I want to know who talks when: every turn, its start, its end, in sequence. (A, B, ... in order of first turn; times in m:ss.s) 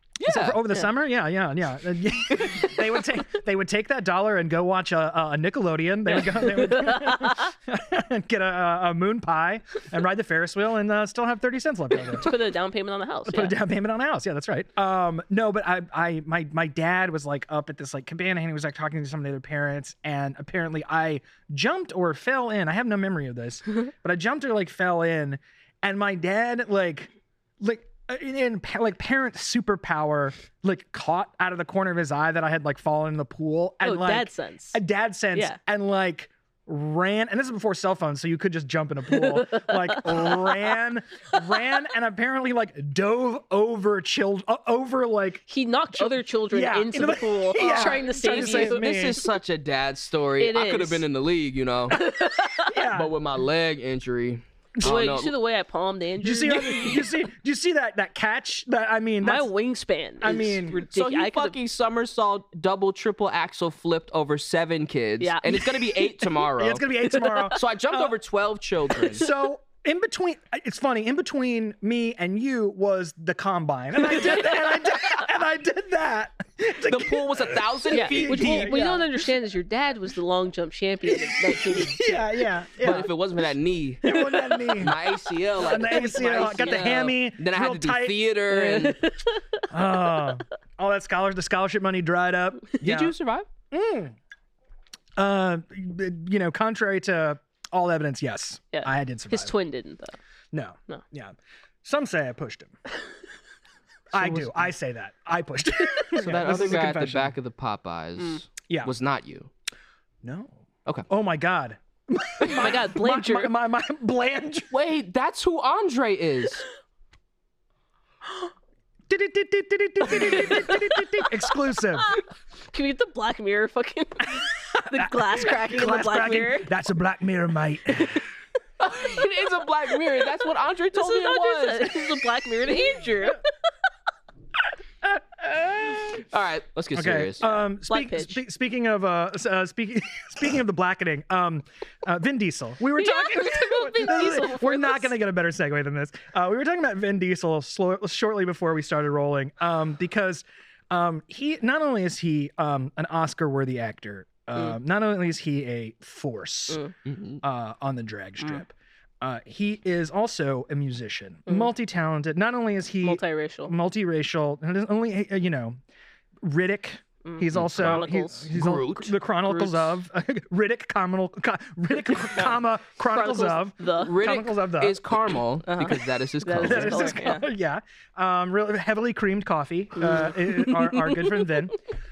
0:00.2-0:00.6 A
0:00.2-0:12.3 B
0:06.1-0:07.5 C
0:12.0-0:13.6 C
0:13.2-0:49.2 B
0:33.8-0:34.8 C
0:39.1-0:40.7 C
0:45.5-0:49.2 C
0:47.6-0:52.0 A
0:50.4-0:51.0 C
0:51.9-0:52.8 C
0:52.6-0:53.1 B
0:52.9-0:55.3 A
0:54.8-0:57.0 C
0:56.2-0:59.5 B
0:59.2-1:01.6 C
1:00.2-1:00.8 B
1:00.9-1:06.8 A
1:05.2-1:06.3 C
1:06.6-1:08.1 B
1:07.0-1:07.6 C
1:07.5-1:09.2 A
1:09.1-1:19.1 B
1:14.1-1:14.6 C
1:16.8-1:18.7 A
1:17.9-1:22.5 C
1:21.1-1:23.1 B
1:22.8-1:29.0 A
1:24.0-1:24.9 B
1:24.0-1:25.1 C
1:25.6-1:28.2 B
1:25.7-1:27.1 C
1:28.5-1:29.6 C
1:29.7-1:33.1 B
1:32.8-1:33.5 A
1:33.7-1:34.1 B
1:35.2-1:39.5 B
1:38.7-1:40.2 C
1:40.5-1:42.7 B
1:44.1-1:47.3 B
1:44.2-1:44.5 A
1:46.1-1:49.5 A
1:50.2-1:54.7 B
1:52.4-1:53.5 C
1:54.7-1:56.6 A
1:59.1-2:02.1 B
2:00.1-2:01.2 C
2:02.1-2:06.7 C
2:04.8-2:08.2 B
2:08.8-2:12.0 A
2:10.9-2:13.5 C
2:15.0-2:16.1 B
2:16.1-2:17.4 A
2:16.9-2:36.8 B
2:17.4-2:18.4 C
2:23.0-2:25.1 C
2:37.0-2:37.4 A
2:37.4-2:45.8 B
2:43.0-2:43.7 C
2:46.4-2:55.0 B
2:47.2-2:48.5 C
2:47.5-2:49.1 A
2:52.3-2:54.1 C
2:54.0-2:57.1 A
2:55.6-2:57.5 C
2:56.6-3:01.8 B
3:00.0-3:01.5 C